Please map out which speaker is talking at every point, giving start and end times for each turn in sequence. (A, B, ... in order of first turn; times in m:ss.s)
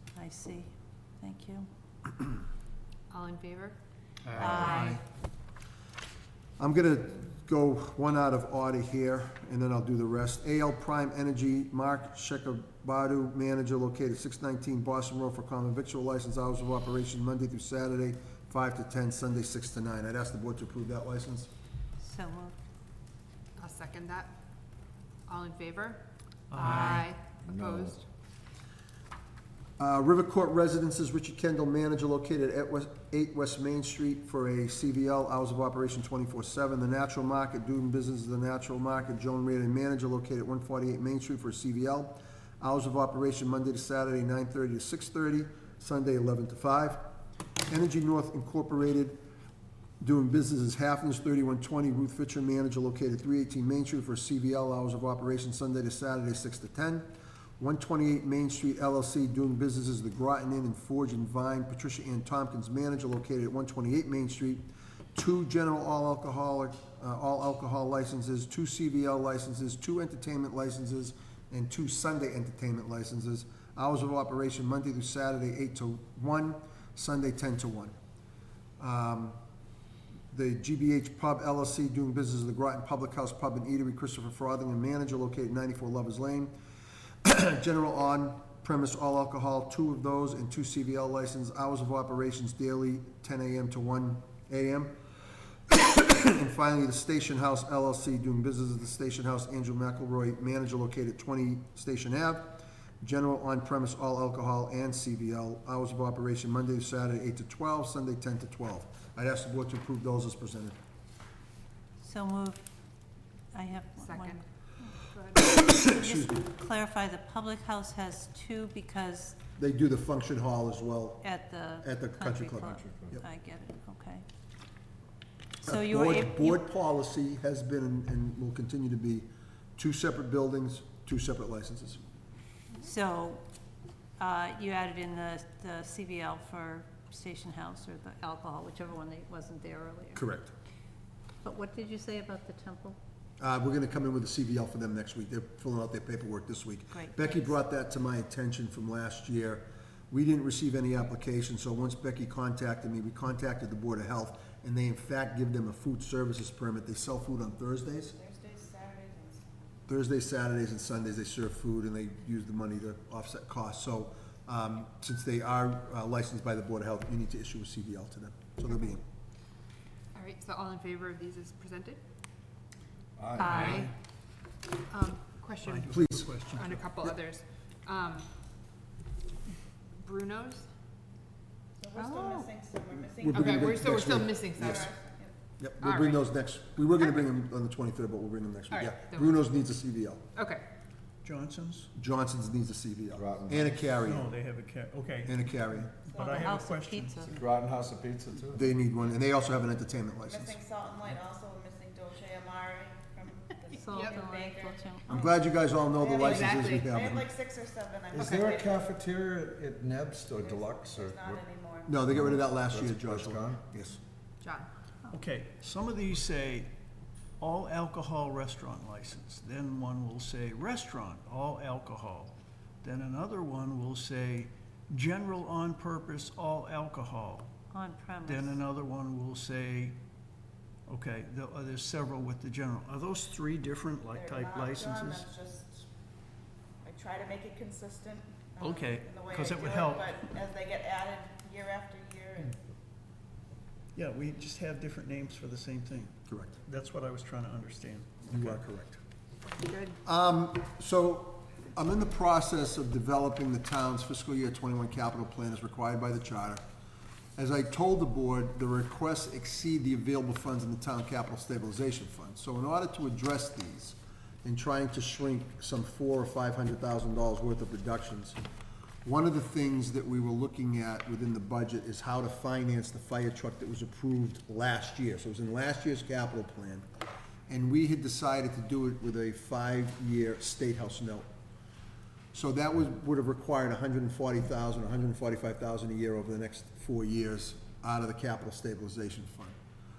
0:00.2-0:01.7 A
0:03.1-0:03.8 B
0:04.4-0:05.0 A
0:06.6-0:21.5 C
0:22.0-0:22.5 A
0:23.6-0:24.4 B
0:25.3-0:28.1 B
0:26.5-0:27.1 D
0:26.6-0:27.0 A
0:27.5-0:28.0 E
0:29.8-0:47.0 C
0:47.7-0:49.2 C
0:50.0-0:57.1 C
0:57.6-1:04.6 C
1:05.1-1:17.9 C
1:18.8-1:19.4 C
1:20.3-1:26.5 C
1:27.2-1:35.0 C
1:35.7-1:50.8 C
1:52.0-1:52.7 A
1:53.5-1:54.4 A
1:54.0-1:55.5 B
1:55.5-1:56.5 C
1:55.6-1:59.4 A
1:59.6-2:01.3 C
2:01.2-2:04.2 A
2:01.8-2:03.2 C
2:05.6-2:06.6 A
2:05.6-2:12.0 C
2:12.8-2:13.4 A
2:14.2-2:20.2 A
2:20.2-2:20.5 C
2:21.4-2:23.0 A
2:23.4-2:38.2 C
2:26.9-2:27.5 A
2:38.2-2:39.4 F
2:39.9-2:49.0 C
2:50.1-2:52.0 B
2:53.2-2:53.9 E
2:53.4-2:53.9 B
2:53.4-2:53.9 D
2:54.9-2:58.3 B
2:55.6-2:56.8 D
2:55.9-2:56.4 C
3:00.0-3:00.7 B
3:01.8-3:03.8 F
3:01.9-3:02.5 B
3:03.2-3:04.9 C
3:03.3-3:04.9 B
3:04.6-3:05.3 F
3:05.6-3:10.2 C
3:05.8-3:06.3 B
3:08.7-3:09.4 B
3:10.4-3:10.6 B
3:11.2-3:11.9 D
3:12.0-3:14.3 C
3:13.1-3:13.9 E
3:14.0-3:15.4 D
3:15.2-3:15.9 C
3:16.0-3:16.7 F
3:16.0-3:17.4 D
3:16.2-3:17.3 A
3:17.2-3:18.7 E
3:18.5-3:20.6 C
3:20.3-3:25.4 F
3:23.7-3:25.2 A
3:23.9-3:24.2 B
3:25.1-3:27.3 C
3:25.9-3:28.9 F
3:26.2-3:26.9 B
3:28.1-3:31.4 E
3:30.4-3:32.0 F
3:31.9-3:34.0 C
3:32.0-3:33.6 E
3:34.4-3:34.7 B
3:35.1-3:36.7 D
3:37.4-3:47.5 D
3:47.7-3:48.6 A
3:48.3-3:50.0 D
3:50.9-3:55.3 D
3:54.1-3:55.9 F
3:56.8-4:02.6 F
3:58.6-4:00.2 D
4:04.0-4:08.8 D
4:06.3-4:06.5 C
4:08.3-4:09.0 C
4:09.5-4:10.0 B
4:10.0-4:16.6 C
4:17.4-4:28.4 C
4:29.0-4:36.8 C
4:37.5-4:41.3 C
4:42.3-4:49.6 C